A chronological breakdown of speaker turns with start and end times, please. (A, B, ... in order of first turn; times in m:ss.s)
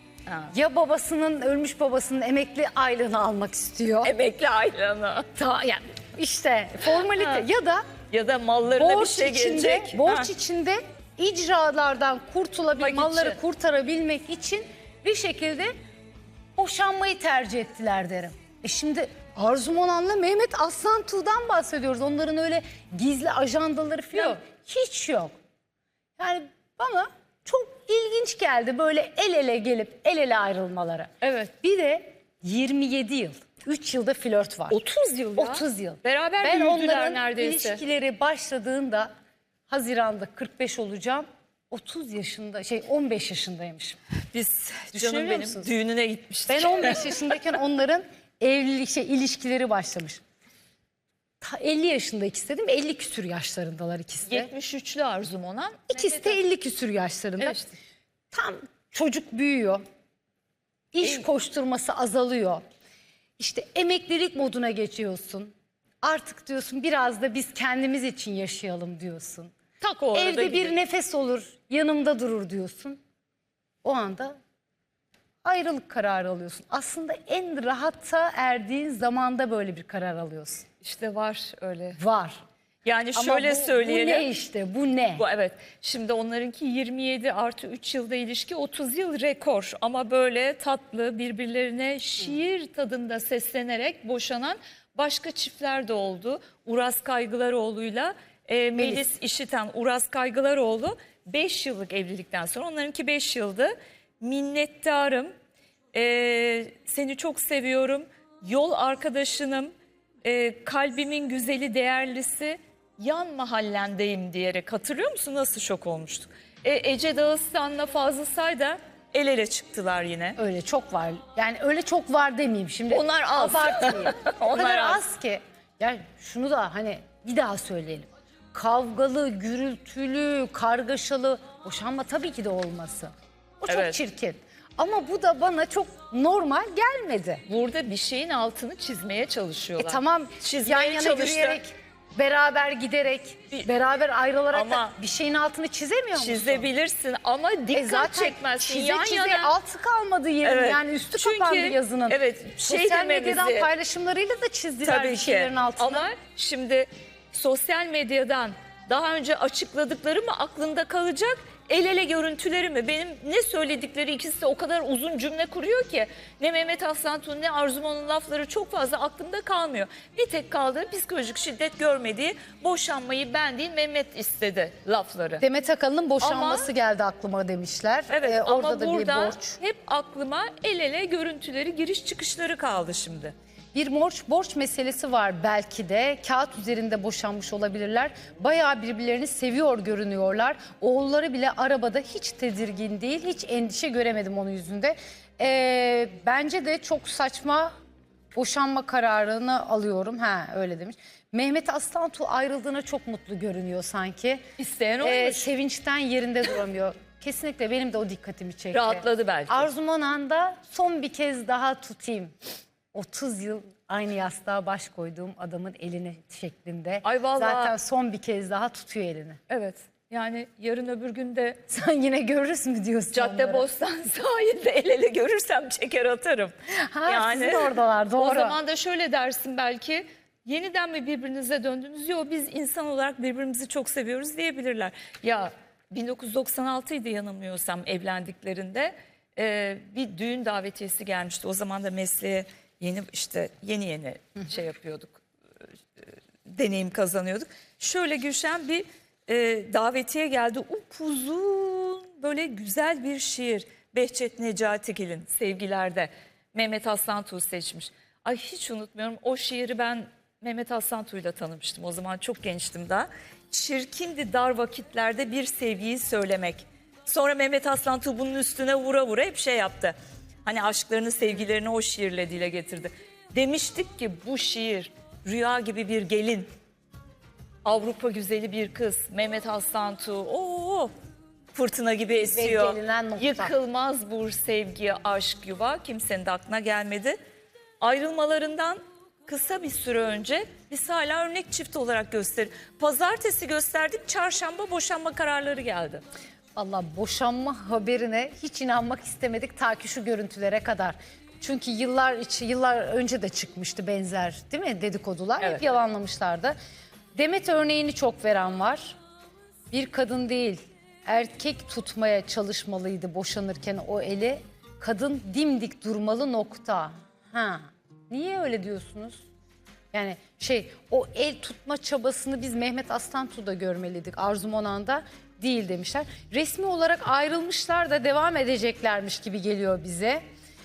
0:00.3-0:00.5 A
0:00.5-0:04.1 B
0:04.0-0:05.3 A
0:05.4-0:07.8 B
0:07.1-0:07.5 A
0:08.1-0:10.3 A
0:08.8-0:15.7 B
0:12.7-0:13.4 A
0:16.6-0:25.3 B
0:26.2-0:34.8 B
0:31.2-0:31.5 A
0:34.7-0:37.8 A
0:35.4-0:39.1 B
0:39.7-0:44.0 B
0:44.3-0:47.2 A
0:44.9-0:45.7 B
0:46.5-0:50.2 B
0:51.4-0:54.5 B
0:54.3-0:56.4 A
0:55.9-0:57.6 B
0:57.4-0:57.8 A
0:58.3-0:59.8 B
1:00.9-1:02.6 B
1:03.4-1:09.5 B
1:09.8-1:10.7 A
1:10.1-1:13.0 B
1:13.8-1:14.4 B
1:15.4-1:20.7 B
1:20.8-1:22.0 A
1:22.0-1:22.4 B
1:22.8-1:24.3 A
1:23.2-1:25.2 B
1:25.2-1:45.3 A
1:38.8-1:39.0 B
1:45.9-1:49.7 A
1:50.2-2:00.4 A
2:00.4-2:17.4 B
2:02.9-2:05.0 A
2:13.7-2:14.0 A
2:17.5-2:21.6 A
2:19.8-2:26.7 B
2:24.5-2:25.0 A
2:26.2-2:29.5 A
2:27.7-2:36.1 B
2:30.4-2:33.7 A
2:34.8-2:55.4 A
2:55.4-2:59.6 B
2:56.2-2:56.7 A
2:58.1-3:03.3 A
3:03.7-3:17.7 B
3:18.4-3:24.4 B
3:24.6-3:25.5 A
3:25.0-3:32.3 B
3:28.7-3:29.7 A
3:32.9-3:39.4 B
3:37.0-3:37.8 A
3:39.5-3:41.6 A
3:41.7-3:43.7 B
3:43.1-4:05.2 A
3:46.9-3:48.6 B
4:06.0-4:36.5 A
4:37.6-4:40.9 A
4:41.6-4:47.2 A
4:42.2-4:43.5 B
4:47.8-4:56.0 A
4:56.6-5:06.6 B
5:07.2-5:09.0 B
5:09.7-5:19.2 B
5:19.9-5:30.2 B